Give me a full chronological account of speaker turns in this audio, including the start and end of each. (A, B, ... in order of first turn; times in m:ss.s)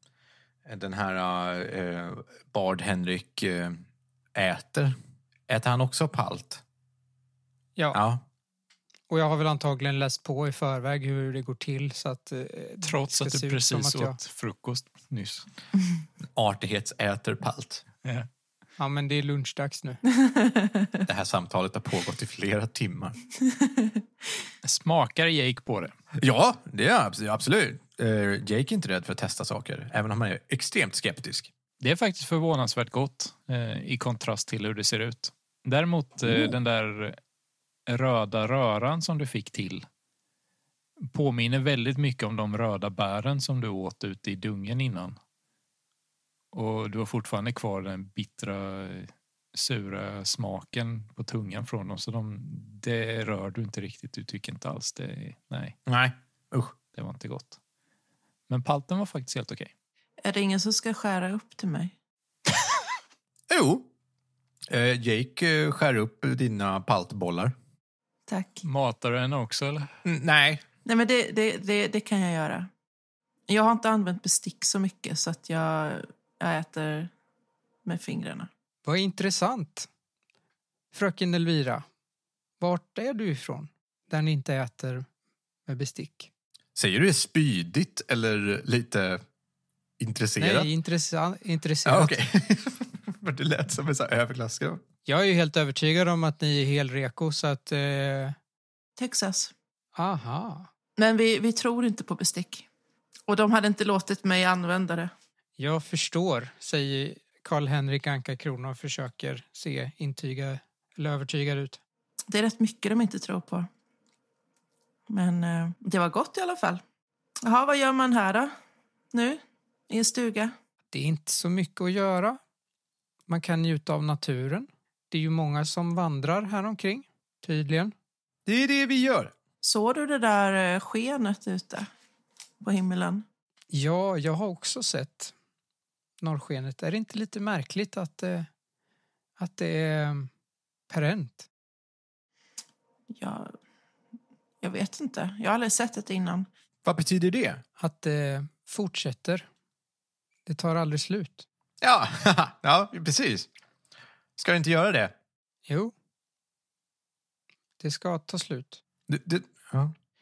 0:00.7-0:03.8 A
0:04.4-0:05.0 A
0:05.5-0:06.6 A
0:07.9-0:08.2 A
0:09.1-0:14.2 B
0:12.8-0:15.5 C
0:16.3-0:17.8 A
0:18.8-0:20.0 B
0:20.3-0:20.9 D
0:21.1-0:23.2 A
0:24.6-0:25.9 C
0:26.2-0:31.5 A
0:31.8-0:37.2 C
0:36.2-0:36.5 A
0:37.9-0:39.9 C
0:41.0-0:45.2 C
0:46.5-0:55.8 C
0:55.9-0:56.8 A
0:56.9-0:57.6 C
0:58.5-0:59.7 C
1:00.2-1:01.9 D
1:03.5-1:03.9 A
1:04.7-1:07.5 A
1:08.3-1:08.6 D
1:08.6-1:09.9 C
1:10.0-1:10.6 A
1:10.9-1:12.7 D
1:13.5-1:17.1 D
1:17.8-1:18.5 D
1:18.8-1:19.9 B
1:20.9-1:21.8 B
1:22.6-1:25.1 B
1:25.7-1:26.3 B
1:26.8-1:29.2 A
1:30.0-1:30.7 A
1:30.4-1:32.1 B
1:31.8-1:34.8 A
1:35.1-1:38.4 B
1:39.0-1:39.5 D
1:40.0-1:40.7 B
1:41.0-1:42.6 D
1:43.3-1:45.1 D
1:45.6-1:51.8 B
1:52.3-1:53.7 D
1:55.1-1:56.8 D
1:57.4-1:58.5 D
1:59.1-2:00.5 D
2:00.9-2:02.4 B
2:03.3-2:07.9 B
2:08.5-2:09.3 A
2:09.6-2:11.9 D
2:12.6-2:13.2 D
2:13.7-2:15.3 B
2:16.2-2:18.5 B
2:19.4-2:20.3 B
2:20.9-2:21.5 B
2:23.1-2:23.5 D
2:24.6-2:26.5 D
2:26.8-2:27.6 A
2:27.8-2:29.5 B
2:30.5-2:31.4 B
2:31.8-2:33.5 A
2:34.4-2:35.1 A
2:35.7-2:35.9 B
2:37.8-2:38.8 B
2:39.1-2:39.9 A